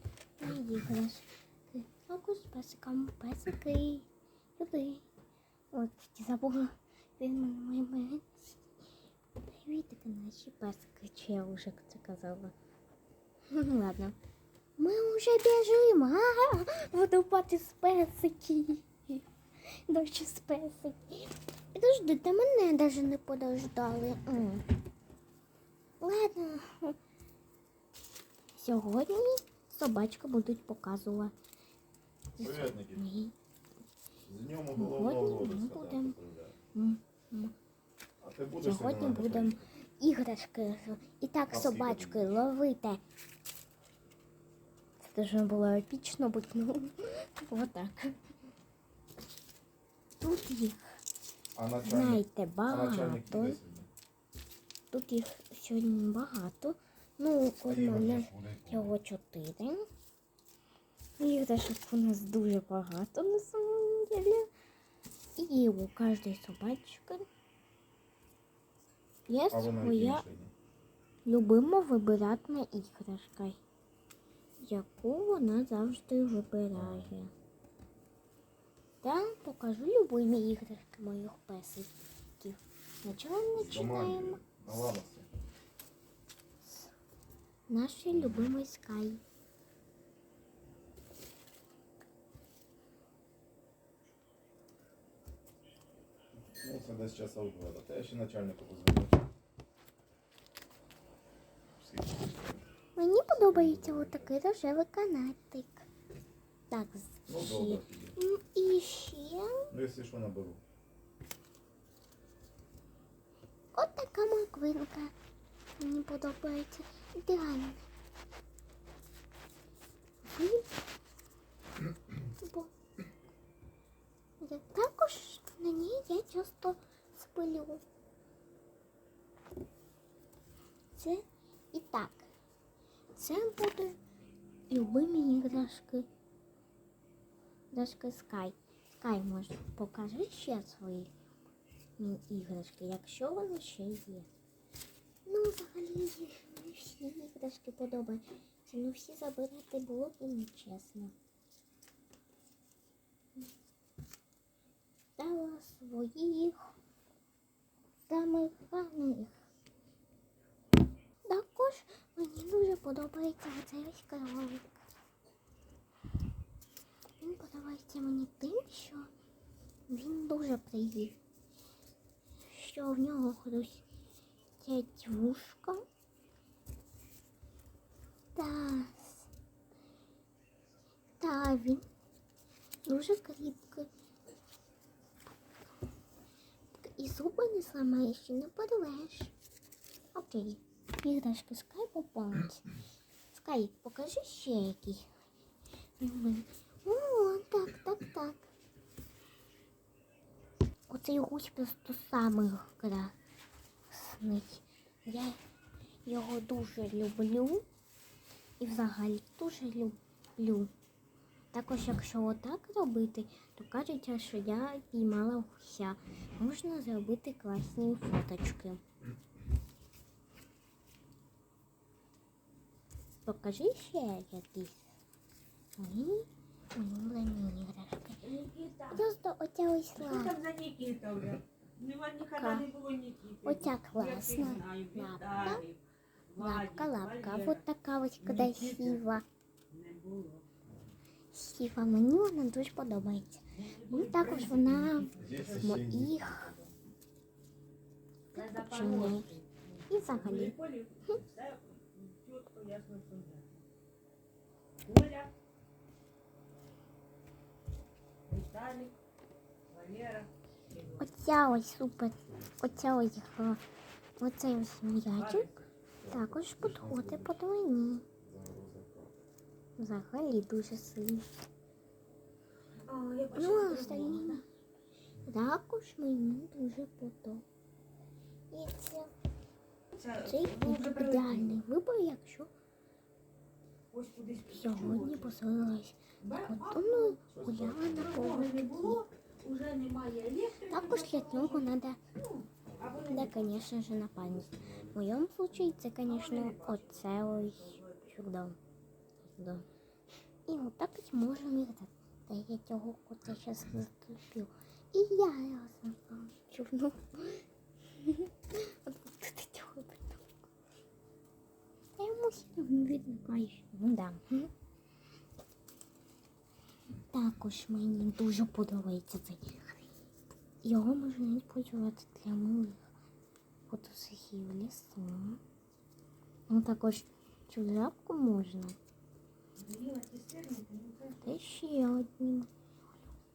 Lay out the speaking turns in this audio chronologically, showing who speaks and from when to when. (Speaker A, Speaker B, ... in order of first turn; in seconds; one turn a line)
Speaker A: 0.4-4.1
Speaker A: 4.6-5.0
Speaker A: 5.7-8.6
Speaker A: 9.4-12.5
Speaker A: 13.5-14.2
Speaker A: 14.8-24.6
Speaker A: 26.0-27.0
Speaker A: 28.6-31.3
Speaker A: 32.4-33.3
Speaker B: 32.4-33.0
Speaker B: 34.2-36.6
Speaker A: 34.7-36.1
Speaker A: 36.7-37.5
Speaker B: 38.2-39.6
Speaker A: 38.6-43.0
Speaker B: 41.5-42.3
Speaker A: 45.0-48.2
Speaker A: 50.2-51.0
Speaker B: 51.5-53.9
Speaker A: 51.8-53.6
Speaker A: 54.9-59.8
Speaker B: 57.6-58.9
Speaker A: 61.2-64.5
Speaker A: 65.4-67.2
Speaker A: 69.3-70.2
Speaker B: 69.5-70.5
Speaker A: 71.2-73.6
Speaker A: 74.6-77.3
Speaker B: 76.7-77.1
Speaker A: 79.0-85.0
Speaker B: 83.5-85.3
Speaker A: 86.6-86.9
Speaker A: 87.7-89.2
Speaker B: 88.1-88.5
Speaker B: 96.5-99.2
Speaker B: 101.8-102.6
Speaker A: 103.0-105.9
Speaker B: 103.3-104.3
Speaker A: 106.7-109.7
Speaker B: 107.3-108.2
Speaker B: 109.7-110.6
Speaker A: 113.7-115.1
Speaker A: 115.8-117.8
Speaker A: 120.2-120.7
Speaker A: 122.4-122.7
Speaker A: 124.4-127.8
Speaker A: 130.9-132.3
Speaker A: 133.1-134.0
Speaker A: 134.7-136.1
Speaker A: 137.7-141.1
Speaker A: 142.0-144.3
Speaker A: 145.2-151.1
Speaker A: 155.2-156.7
Speaker A: 158.1-159.4
Speaker A: 161.3-164.8
Speaker A: 167.2-169.1
Speaker A: 169.9-171.2
Speaker A: 172.4-173.8
Speaker A: 174.6-175.8
Speaker A: 178.3-179.2
Speaker A: 181.2-181.8
Speaker A: 182.8-183.9
Speaker A: 186.8-189.3
Speaker A: 190.1-192.7
Speaker A: 193.3-195.1
Speaker A: 196.0-198.5
Speaker A: 200.9-203.1
Speaker A: 203.9-205.4
Speaker A: 206.0-207.6
Speaker A: 208.6-210.7
Speaker A: 211.5-218.8
Speaker A: 223.2-224.9
Speaker A: 225.8-228.2
Speaker C: 228.2-229.0
Speaker A: 228.9-230.4
Speaker C: 230.0-237.6
Speaker A: 232.2-232.7
Speaker A: 233.4-235.7
Speaker A: 236.4-239.2
Speaker C: 238.2-239.1
Speaker C: 239.7-240.5
Speaker A: 241.3-246.5
Speaker C: 243.5-245.8
Speaker B: 245.2-246.7
Speaker A: 248.3-249.3
Speaker C: 248.3-253.6
Speaker A: 249.9-250.6
Speaker C: 254.8-255.3
Speaker C: 258.3-258.9
Speaker C: 259.7-261.0
Speaker A: 261.0-263.6
Speaker B: 262.3-262.6
Speaker A: 264.2-268.1
Speaker C: 265.1-265.6
Speaker B: 266.0-267.4
Speaker B: 268.2-269.1
Speaker A: 269.8-271.3
Speaker C: 272.8-274.4
Speaker A: 273.3-274.4
Speaker A: 275.2-277.4
Speaker A: 278.5-279.1
Speaker C: 279.9-281.6
Speaker A: 280.2-282.5
Speaker C: 283.9-285.4
Speaker A: 284.4-289.0
Speaker C: 286.2-287.2
Speaker B: 287.3-288.4
Speaker C: 287.9-293.6
Speaker A: 290.7-292.0
Speaker B: 292.7-293.4
Speaker A: 293.1-298.6
Speaker B: 294.2-294.9
Speaker C: 295.6-298.1
Speaker A: 299.2-299.6
Speaker A: 300.5-307.4
Speaker A: 307.9-310.4
Speaker A: 312.0-314.5
Speaker A: 317.0-319.9
Speaker A: 320.6-322.9
Speaker A: 323.7-325.4
Speaker A: 326.5-328.8
Speaker C: 329.5-331.4
Speaker A: 331.2-332.5